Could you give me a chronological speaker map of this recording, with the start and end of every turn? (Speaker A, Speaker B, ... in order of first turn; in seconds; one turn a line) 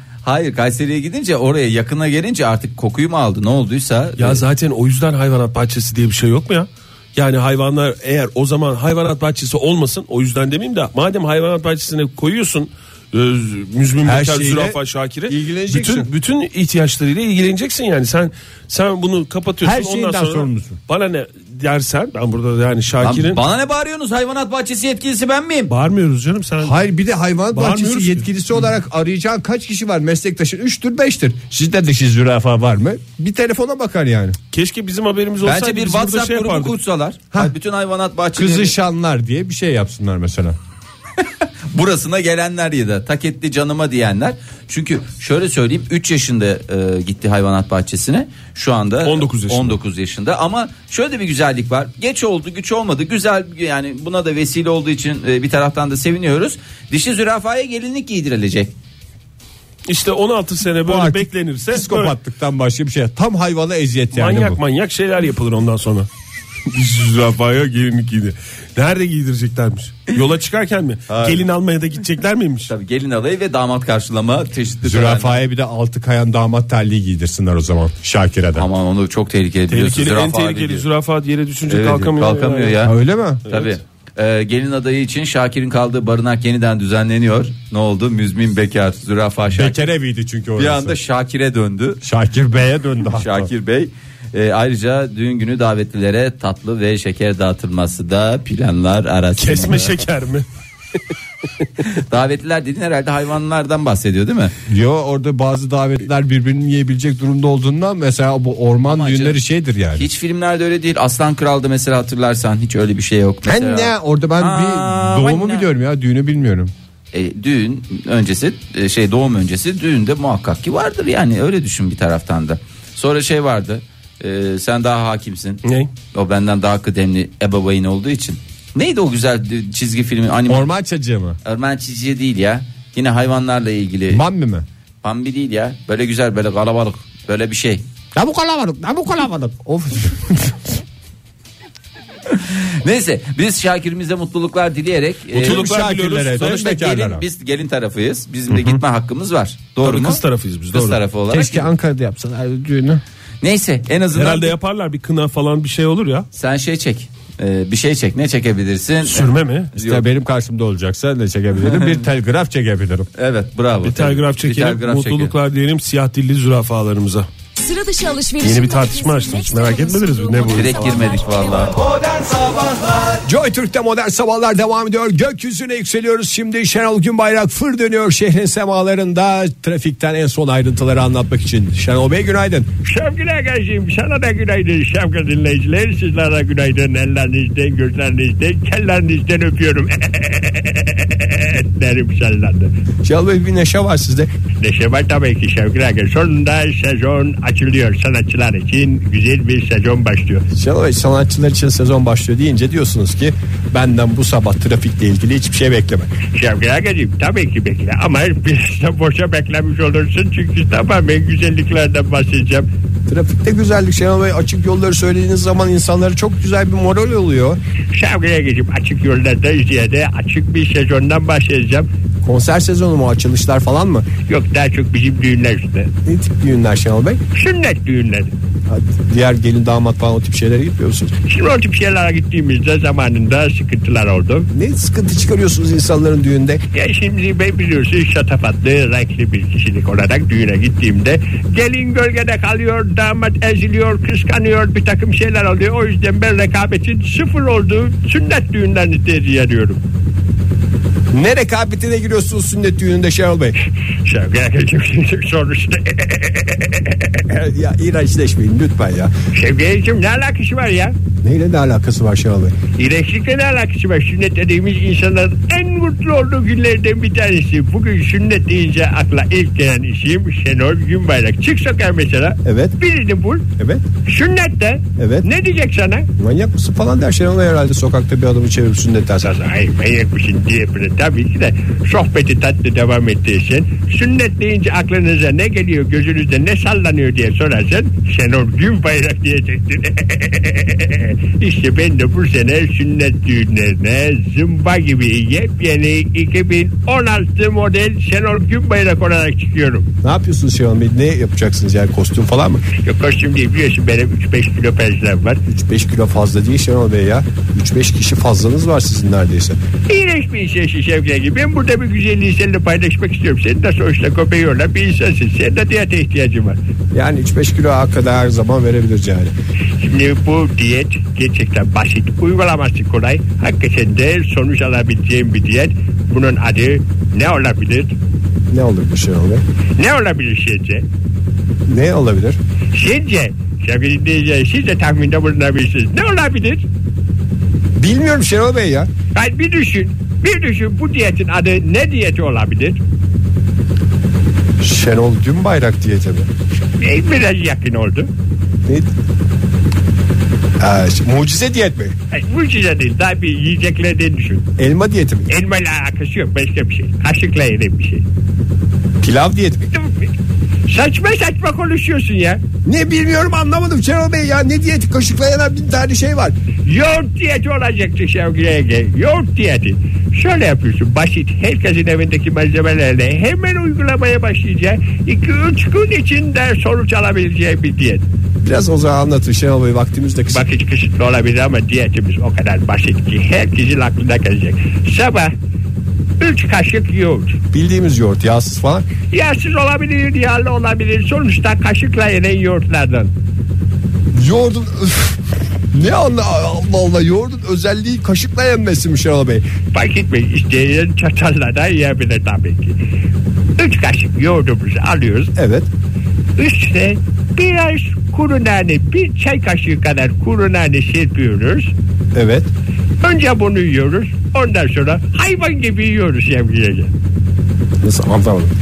Speaker A: 0.2-4.4
Speaker B: 4.2-23.4
Speaker C: 14.0-16.1
Speaker C: 19.6-20.8
Speaker A: 23.0-25.7
Speaker B: 25.7-26.8
Speaker C: 26.6-34.4
Speaker B: 27.5-28.3
Speaker B: 34.5-36.7
Speaker A: 35.4-38.7
Speaker C: 38.4-40.5
Speaker A: 41.7-58.7
Speaker B: 49.0-49.8
Speaker B: 59.9-62.1
Speaker C: 60.8-64.6
Speaker B: 64.1-66.1
Speaker B: 66.7-72.7
Speaker A: 71.1-71.4
Speaker A: 72.7-75.4
Speaker C: 74.8-78.7
Speaker A: 78.5-80.9
Speaker B: 79.7-82.8
Speaker A: 81.7-82.9
Speaker C: 82.8-83.4
Speaker B: 83.5-83.8
Speaker A: 83.5-89.8
Speaker C: 89.5-91.0
Speaker A: 90.6-92.0
Speaker C: 92.0-93.5
Speaker A: 93.1-100.0
Speaker B: 99.4-100.5
Speaker A: 101.8-104.5
Speaker C: 104.7-110.0
Speaker A: 108.9-109.4
Speaker A: 109.9-115.7
Speaker C: 113.4-116.7
Speaker A: 117.1-130.7
Speaker B: 125.6-125.9
Speaker C: 130.5-131.4
Speaker A: 131.4-134.2
Speaker C: 134.1-134.7
Speaker A: 135.0-137.8
Speaker C: 138.1-140.7
Speaker A: 142.3-151.7
Speaker C: 145.3-147.2
Speaker B: 145.3-146.6
Speaker C: 148.5-148.8
Speaker B: 149.8-151.0
Speaker C: 151.3-153.0
Speaker A: 153.4-154.6
Speaker B: 154.1-156.3
Speaker A: 156.3-160.1
Speaker B: 159.0-159.7
Speaker C: 159.8-163.1
Speaker A: 161.6-162.0
Speaker A: 163.2-165.3
Speaker B: 163.8-167.3
Speaker D: 167.6-171.7
Speaker B: 168.4-171.1
Speaker A: 170.5-173.1
Speaker C: 173.2-182.7
Speaker E: 182.8-192.7
Speaker C: 193.0-194.3
Speaker E: 194.6-200.4
Speaker C: 200.5-206.1
Speaker E: 206.3-212.7
Speaker C: 213.1-217.6
Speaker E: 217.9-221.9
Speaker C: 222.2-224.1
Speaker E: 224.2-225.9
Speaker C: 226.1-227.2
Speaker E: 227.3-228.3
Speaker C: 228.7-231.1
Speaker E: 231.2-234.5
Speaker C: 234.5-236.6
Speaker E: 236.7-249.8
Speaker C: 251.1-253.6
Speaker E: 254.0-257.2
Speaker C: 257.3-259.1
Speaker E: 259.3-260.9
Speaker C: 261.2-262.6
Speaker E: 262.7-273.5
Speaker C: 272.4-272.7
Speaker C: 273.6-273.8
Speaker E: 274.0-276.1
Speaker C: 275.0-275.3
Speaker C: 276.2-279.3
Speaker E: 279.2-299.9
Speaker C: 300.0-302.6
Speaker E: 302.8-305.4
Speaker C: 305.5-309.6
Speaker E: 309.9-316.6
Speaker C: 316.9-319.3
Speaker E: 319.8-327.9
Speaker C: 328.5-329.4
Speaker E: 329.8-330.9
Speaker C: 331.7-332.4
Speaker E: 332.7-336.6
Speaker C: 337.8-338.9
Speaker E: 339.1-342.8
Speaker C: 344.6-346.3
Speaker E: 346.8-348.1
Speaker C: 350.6-351.9
Speaker E: 352.1-354.5
Speaker C: 354.6-355.3
Speaker E: 355.3-358.0
Speaker C: 359.0-359.7
Speaker E: 359.7-360.1
Speaker E: 360.7-362.4
Speaker C: 362.6-366.3
Speaker E: 366.6-378.0
Speaker C: 378.4-380.4
Speaker E: 380.3-385.3
Speaker E: 386.2-387.4
Speaker C: 387.5-388.9
Speaker E: 389.1-393.1
Speaker C: 394.1-399.4
Speaker E: 399.7-402.8
Speaker E: 403.6-405.3
Speaker C: 405.4-405.7
Speaker E: 406.4-411.7
Speaker C: 412.1-412.5
Speaker E: 413.0-416.9
Speaker C: 417.8-418.5